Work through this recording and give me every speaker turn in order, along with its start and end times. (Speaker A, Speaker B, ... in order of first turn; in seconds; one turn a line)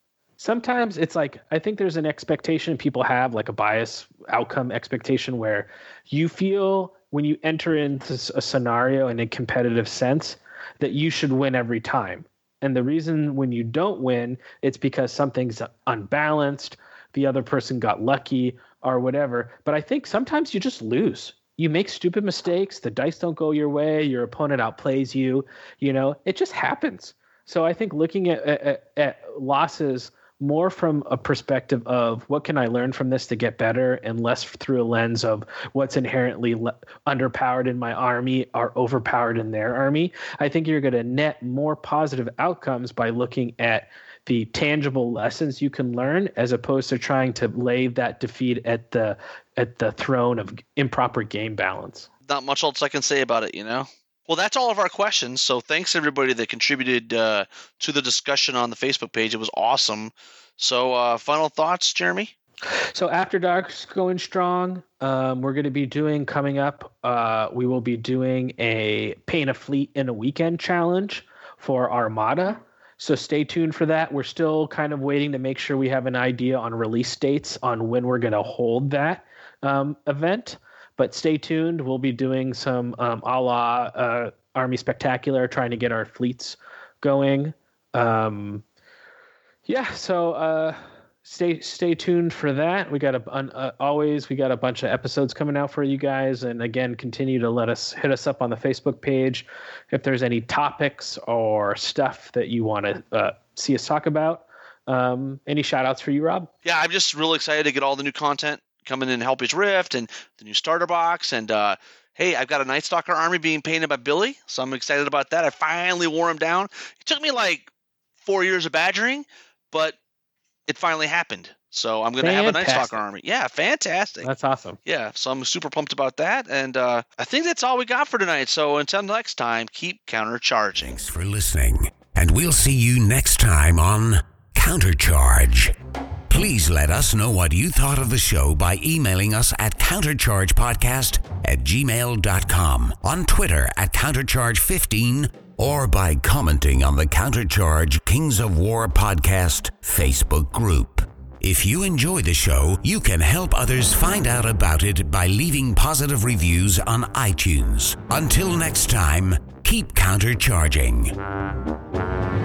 Speaker A: 0.4-52.1
Speaker B: 52.2-62.3
Speaker A: 62.9-88.6
Speaker A: 89.7-106.5
Speaker B: 106.6-117.7
Speaker B: 118.2-120.0
Speaker B: 120.7-124.3
Speaker A: 122.2-123.0
Speaker A: 124.2-124.8
Speaker B: 124.8-130.9
Speaker C: 130.8-135.7
Speaker C: 136.3-161.1